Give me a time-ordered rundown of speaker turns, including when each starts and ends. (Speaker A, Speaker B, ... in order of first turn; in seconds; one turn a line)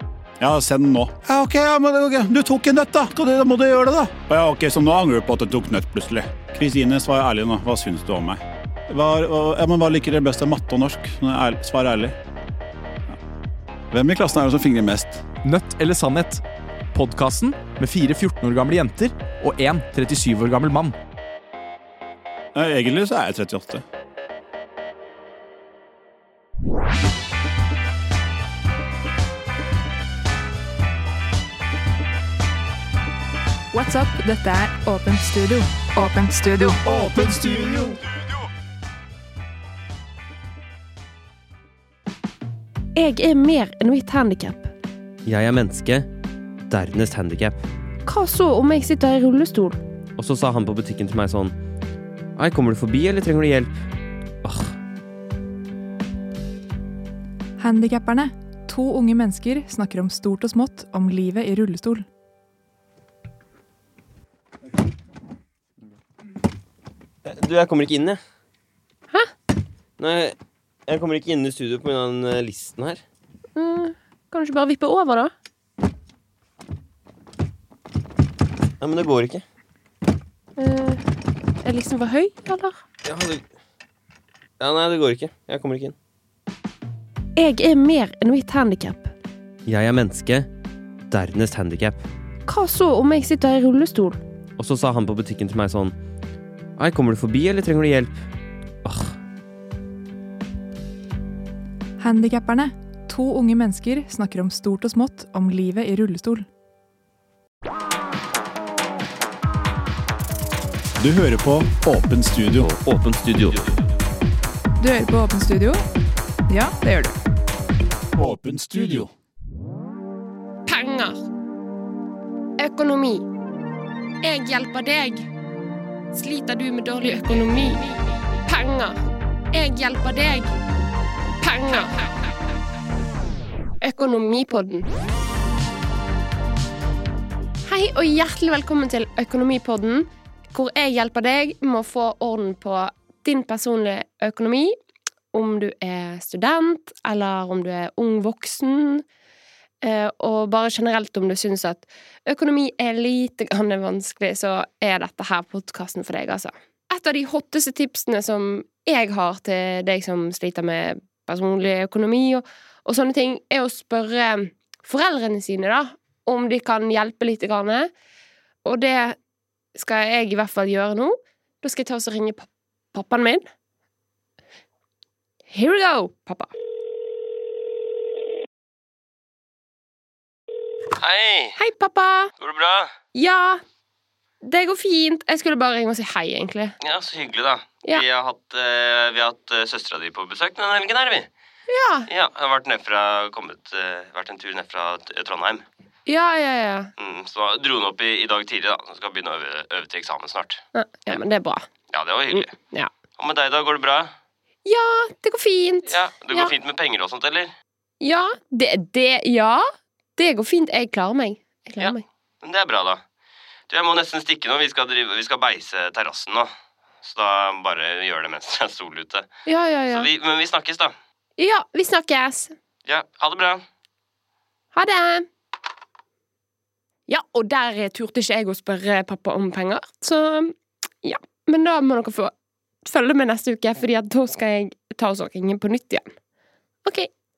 Speaker A: 0.4-8.3
Speaker A: 8.9-12.1
Speaker A: 13.9-15.2
Speaker B: 15.4-16.4
Speaker B: 16.9-20.9
Speaker A: 22.6-23.8
Speaker C: 33.7-36.8
Speaker B: 36.9-38.0
Speaker D: 43.0-44.7
Speaker E: 45.2-46.0
Speaker E: 46.7-47.6
Speaker D: 48.0-49.8
Speaker E: 50.2-51.5
Speaker E: 52.4-53.8
Speaker E: 54.4-54.7
Speaker C: 57.6-62.0
Speaker E: 67.2-68.2
Speaker E: 70.0-70.3
Speaker E: 70.9-73.0
Speaker D: 73.5-75.3
Speaker E: 78.8-79.4
Speaker D: 80.6-81.0
Speaker D: 81.6-82.8
Speaker E: 83.0-83.4
Speaker E: 84.6-85.9
Speaker D: 87.3-89.1
Speaker E: 89.7-90.5
Speaker E: 91.1-92.0
Speaker D: 92.5-94.2
Speaker E: 94.6-95.9
Speaker E: 96.8-98.2
Speaker E: 98.8-99.1
Speaker C: 102.0-106.5
Speaker A: 111.0-112.7
Speaker E: 112.6-113.6
Speaker C: 114.8-115.8
Speaker C: 116.5-117.2
Speaker A: 118.2-119.1
Speaker D: 120.7-121.2
Speaker D: 122.6-123.2
Speaker D: 124.2-125.2
Speaker D: 126.1-127.9
Speaker D: 128.4-129.0
Speaker D: 129.5-130.5
Speaker D: 131.4-132.0
Speaker D: 133.8-134.9
Speaker D: 137.6-144.8
Speaker D: 145.3-149.0
Speaker D: 149.8-167.9
Speaker D: 168.6-169.2
Speaker D: 169.8-173.4
Speaker D: 175.5-176.5
Speaker F: 181.0-181.6
Speaker D: 181.6-182.3
Speaker F: 182.4-182.9
Speaker D: 183.1-183.6
Speaker D: 184.4-186.8
Speaker F: 186.8-191.3
Speaker D: 191.7-192.1
Speaker F: 192.1-195.6
Speaker D: 196.1-196.9
Speaker F: 197.0-200.6
Speaker D: 200.7-201.7
Speaker F: 201.9-202.5
Speaker D: 202.3-202.9
Speaker F: 203.2-204.1
Speaker D: 204.7-206.5
Speaker F: 205.8-207.5
Speaker D: 208.0-209.6
Speaker D: 210.2-212.0
Speaker F: 211.8-213.0
Speaker F: 213.7-216.5
Speaker F: 217.0-219.2
Speaker D: 219.4-220.1
Speaker F: 219.9-220.9
Speaker D: 221.4-222.5
Speaker F: 222.9-223.6
Speaker D: 224.7-225.3
Speaker D: 227.1-232.3
Speaker D: 232.8-236.1